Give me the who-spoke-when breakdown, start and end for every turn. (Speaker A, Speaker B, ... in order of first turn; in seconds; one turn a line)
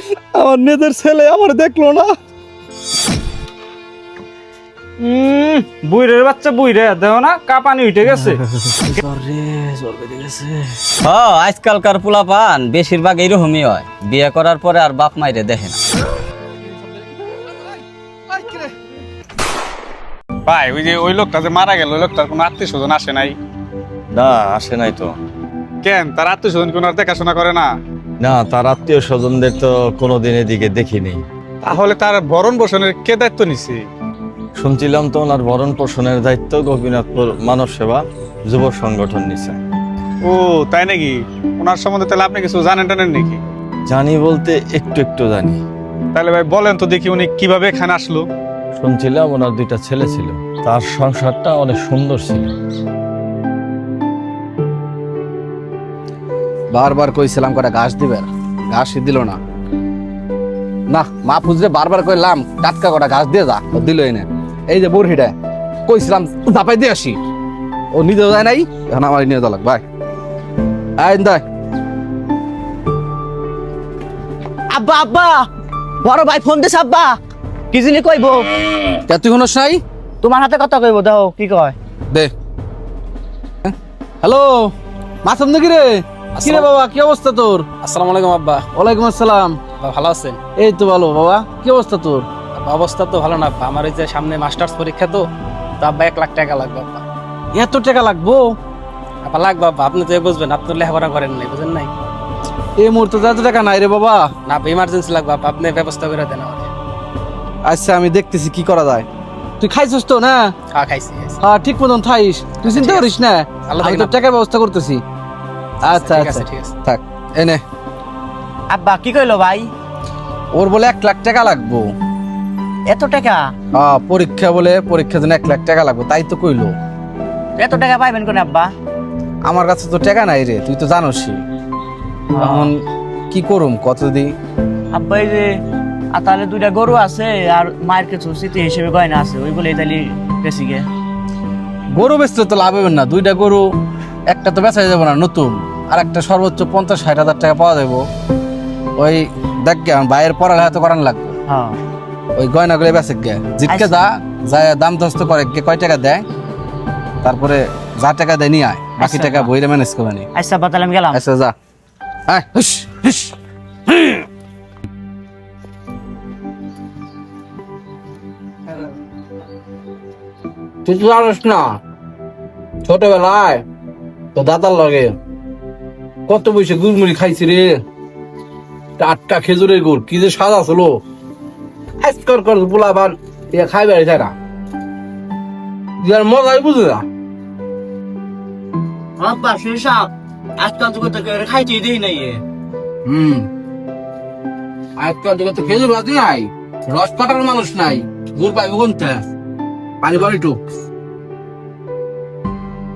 Speaker A: 0.3-2.1
Speaker B: 5.0-8.4
Speaker A: 8.1-10.9
Speaker C: 11.0-15.8
Speaker A: 16.7-17.8
Speaker A: 18.3-18.7
Speaker D: 20.5-23.3
Speaker E: 24.1-25.1
Speaker D: 25.8-27.6
Speaker E: 28.2-31.2
Speaker D: 31.6-33.8
Speaker E: 34.6-39.6
Speaker D: 40.3-43.4
Speaker E: 43.9-45.6
Speaker D: 46.1-48.2
Speaker E: 48.8-52.4
Speaker A: 56.7-59.4
Speaker A: 60.9-65.3
Speaker A: 65.8-67.2
Speaker A: 67.9-69.8
Speaker A: 71.0-71.4
Speaker F: 74.7-75.5
Speaker F: 76.0-77.2
Speaker F: 77.7-78.5
Speaker A: 79.1-79.8
Speaker F: 80.2-81.7
Speaker A: 83.6-84.7
Speaker A: 85.2-87.7
Speaker G: 86.4-86.7
Speaker G: 87.8-88.7
Speaker A: 88.7-89.6
Speaker G: 89.8-90.4
Speaker A: 90.5-92.2
Speaker G: 92.5-95.3
Speaker G: 95.8-97.0
Speaker A: 97.5-98.5
Speaker G: 99.2-101.9
Speaker A: 102.8-104.2
Speaker G: 104.5-106.7
Speaker A: 107.6-109.0
Speaker A: 109.6-110.5
Speaker G: 110.7-111.4
Speaker A: 111.4-115.0
Speaker G: 112.6-113.1
Speaker G: 113.7-114.1
Speaker A: 115.8-117.6
Speaker G: 115.9-116.7
Speaker F: 118.7-119.7
Speaker A: 120.5-121.9
Speaker F: 122.9-123.5
Speaker A: 123.7-126.7
Speaker F: 127.6-128.7
Speaker A: 129.4-131.4
Speaker F: 132.4-132.7
Speaker A: 132.4-132.8
Speaker A: 133.3-134.3
Speaker F: 134.9-135.5
Speaker F: 136.1-140.8
Speaker A: 141.9-143.6
Speaker A: 144.3-148.0
Speaker A: 148.9-151.3
Speaker F: 151.5-151.8
Speaker A: 152.3-156.2
Speaker F: 153.7-153.9
Speaker A: 157.2-160.3
Speaker F: 159.0-159.5
Speaker F: 160.3-161.2
Speaker A: 161.1-161.5
Speaker A: 162.3-163.3
Speaker A: 163.9-164.2
Speaker A: 170.8-171.8
Speaker A: 172.8-173.6
Speaker A: 174.3-175.1
Speaker A: 176.3-177.8
Speaker A: 179.0-181.0
Speaker A: 182.0-184.3
Speaker A: 186.0-187.0
Speaker F: 189.2-192.4
Speaker A: 193.1-193.5
Speaker A: 195.0-199.2
Speaker A: 200.0-200.6